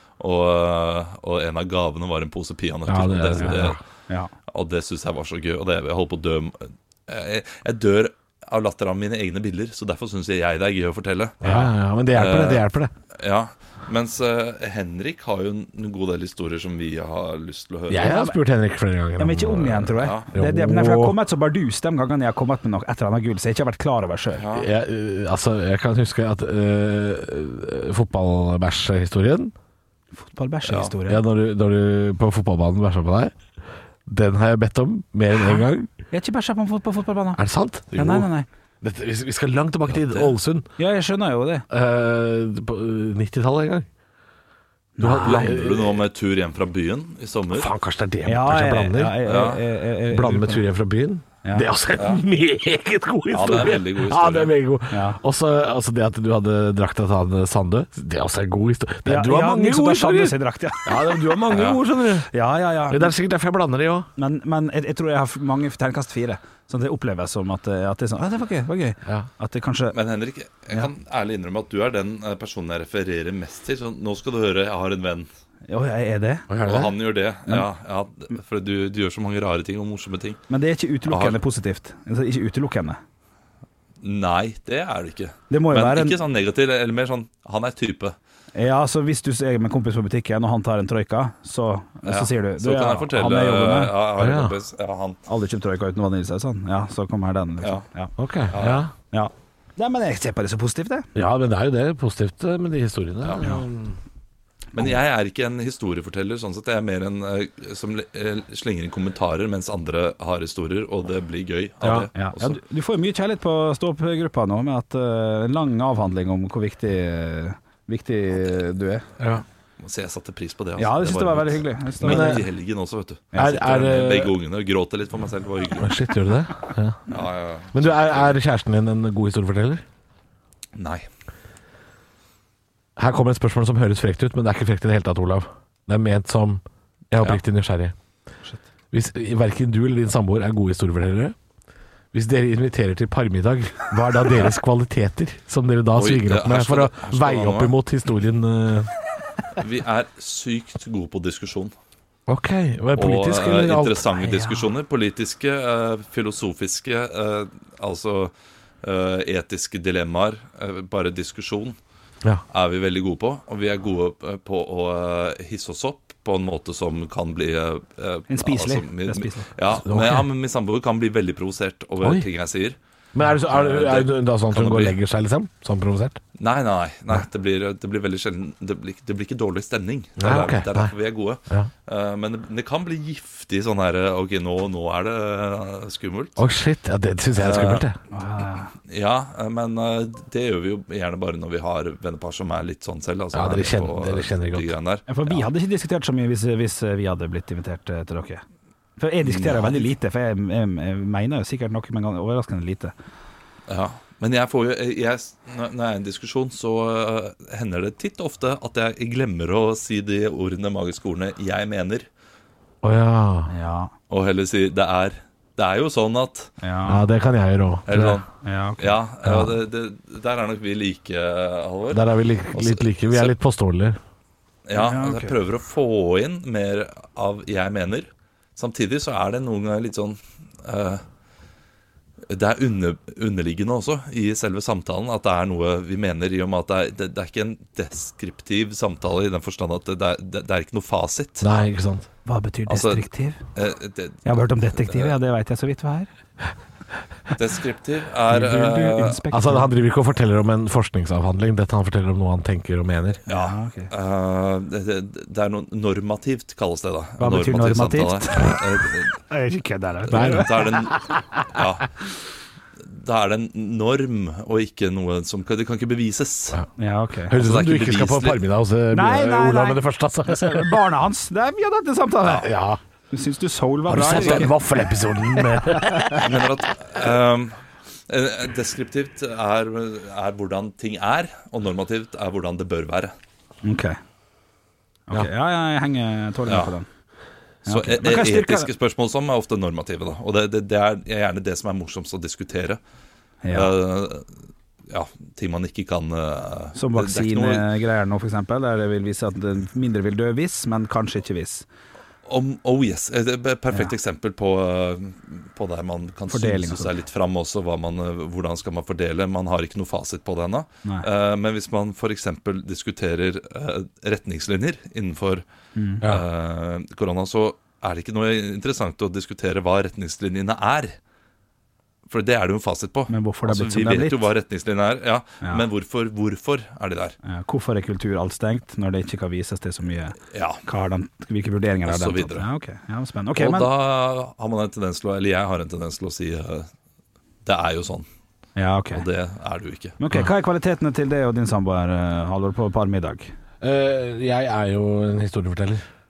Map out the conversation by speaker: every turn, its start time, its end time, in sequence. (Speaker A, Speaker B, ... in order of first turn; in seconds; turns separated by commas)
Speaker A: 0.2-3.8, Speaker B: 2.9-3.8, Speaker C: 3.4-4.3, Speaker A: 4.5-11.5, Speaker B: 11.4-12.9, Speaker C: 11.4-11.7, Speaker A: 12.1-18.2, Speaker B: 17.9-21.1, Speaker C: 18.0-18.4, Speaker C: 19.2-24.4, Speaker A: 20.0-20.3, Speaker A: 24.3-24.7, Speaker B: 24.5-29.5, Speaker C: 30.1-31.2, Speaker A: 30.6-30.9, Speaker B: 31.1-33.3, Speaker B: 34.0-35.9, Speaker C: 36.1-37.4, Speaker B: 37.4-38.3, Speaker C: 37.9-38.5, Speaker B: 38.8-40.7, Speaker A: 39.9-40.3, Speaker C: 40.8-41.6, Speaker B: 41.7-43.9, Speaker C: 45.0-45.6, Speaker B: 45.0-46.0, Speaker A: 45.2-47.7, Speaker B: 47.5-49.2, Speaker C: 48.2-50.6, Speaker A: 49.2-49.6, Speaker B: 50.1-62.3, Speaker A: 52.0-52.2, Speaker A: 53.3-54.5, Speaker C: 54.9-55.2, Speaker C: 59.0-61.4, Speaker A: 61.5-61.8, Speaker C: 62.3-63.1, Speaker B: 62.9-64.1, Speaker C: 64.2-70.0, Speaker A: 69.9-75.3, Speaker C: 75.7-76.5, Speaker B: 76.5-76.9, Speaker A: 76.6-80.4, Speaker C: 80.5-83.0, Speaker A: 81.1-81.4, Speaker A: 84.0-88.2, Speaker C: 85.5-86.2, Speaker C: 88.5-93.9, Speaker A: 92.0-95.2, Speaker B: 94.2-94.5, Speaker C: 95.3-98.1, Speaker B: 98.2-98.9, Speaker A: 98.5-98.8, Speaker C: 99.1-101.1, Speaker B: 101.1-104.0, Speaker A: 104.7-112.6, Speaker B: 111.8-112.1, Speaker C: 112.1-119.0, Speaker B: 119.2-119.4, Speaker A: 119.8-126.0, Speaker C: 120.8-122.4, Speaker B: 122.0-122.5, Speaker C: 123.3-123.6, Speaker B: 123.3-124.3, Speaker B: 125.8-127.1, Speaker A: 127.1-128.3, Speaker B: 127.7-129.8, Speaker A: 130.8-131.1, Speaker B: 133.0-137.9, Speaker B: 138.9-141.3, Speaker B: 142.1-148.9, Speaker A: 146.0-147.7, Speaker A: 149.6-151.7, Speaker B: 152.3-154.0, Speaker A: 152.9-161.8, Speaker C: 154.2-154.6, Speaker A: 162.5-172.8, Speaker C: 168.3-169.5, Speaker B: 169.7-170.3, Speaker B: 172.0-172.2, Speaker B: 173.1-176.2, Speaker A: 173.4-174.9, Speaker A: 176.4-186.4, Speaker B: 180.2-180.9, Speaker B: 186.4-188.0, Speaker A: 187.3-187.8, Speaker C: 188.1-188.7, Speaker A: 188.9-195.4, Speaker B: 193.3-194.7, Speaker C: 195.1-198.4, Speaker C: 199.0-202.9, Speaker A: 199.2-199.9, Speaker A: 203.7-212.1, Speaker B: 212.8-213.5, Speaker C: 213.5-213.9, Speaker A: 214.1-216.5, Speaker C: 216.6-217.1, Speaker B: 216.8-218.2, Speaker A: 217.9-218.2, Speaker C: 218.4-218.9, Speaker A: 218.8-223.3, Speaker B: 219.2-219.5, Speaker B: 221.9-224.0, Speaker A: 224.7-231.0, Speaker C: 224.7-225.3, Speaker A: 232.3-241.5, Speaker B: 241.4-242.1, Speaker C: 242.2-243.4, Speaker A: 242.7-245.1, Speaker C: 244.2-246.1, Speaker A: 247.3-249.2, Speaker C: 248.3-249.7, Speaker B: 249.3-253.2, Speaker A: 253.3-259.2, Speaker C: 253.3-253.9, Speaker C: 257.2-258.6, Speaker C: 259.3-261.1, Speaker A: 260.1-261.9, Speaker B: 260.1-260.8, Speaker A: 262.8-266.6, Speaker C: 266.8-267.4, Speaker B: 267.3-270.7, Speaker A: 267.3-268.4, Speaker C: 268.9-272.5, Speaker B: 272.4-272.8, Speaker C: 273.1-274.5, Speaker B: 273.9-276.3, Speaker A: 274.1-274.5, Speaker C: 275.3-276.2, Speaker A: 276.2-277.6, Speaker A: 278.1-283.1, Speaker C: 283.6-284.0, Speaker C: 285.1-286.9, Speaker A: 286.5-286.7, Speaker C: 287.6-288.7, Speaker A: 287.7-292.8, Speaker C: 293.4-293.7, Speaker A: 293.5-294.3, Speaker A: 294.9-297.6, Speaker C: 296.7-301.6, Speaker A: 302.2-315.4, Speaker C: 306.3-306.9, Speaker C: 315.8-316.0, Speaker A: 316.0-320.9, Speaker A: 322.1-327.1, Speaker C: 323.1-324.3, Speaker C: 327.2-333.7, Speaker A: 330.3-330.6, Speaker A: 331.9-332.4, Speaker A: 333.3-336.7, Speaker A: 337.4-338.1, Speaker C: 338.6-339.0, Speaker A: 338.9-340.0, Speaker C: 340.0-343.3, Speaker B: 343.6-345.8